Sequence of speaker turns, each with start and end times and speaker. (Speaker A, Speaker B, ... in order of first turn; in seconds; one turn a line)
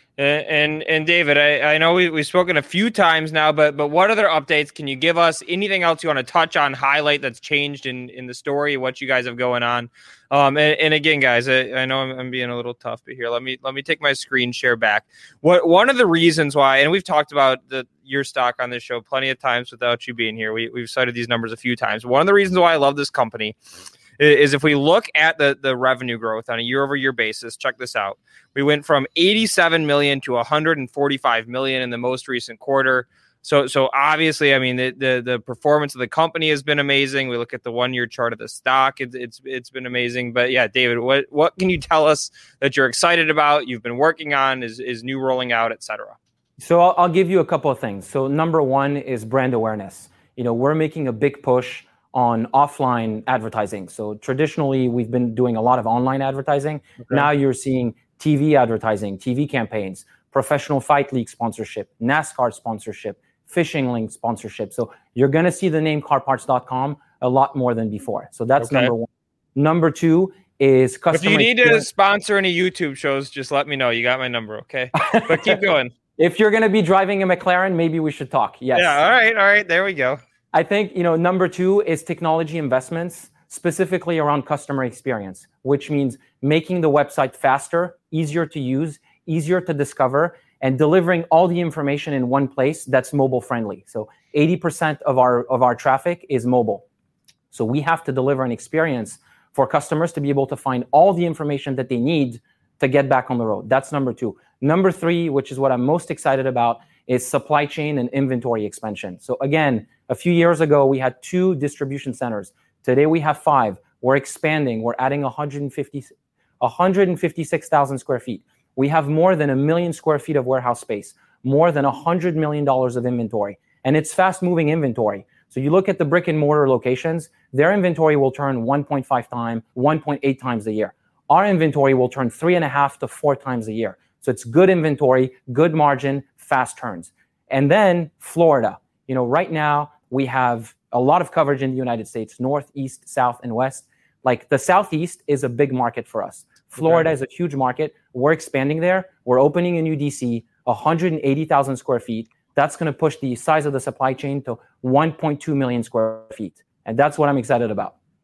Speaker A: 0.2-23.6
Speaker A: 24.2-46.2
Speaker B: 46.6-71.9
Speaker A: 68.6-68.9
Speaker A: 71.1-75.9
Speaker B: 74.9-75.6
Speaker B: 76.2-79.0
Speaker A: 78.7-80.2
Speaker B: 80.5-96.8
Speaker B: 97.5-157.9
Speaker A: 146.8-147.1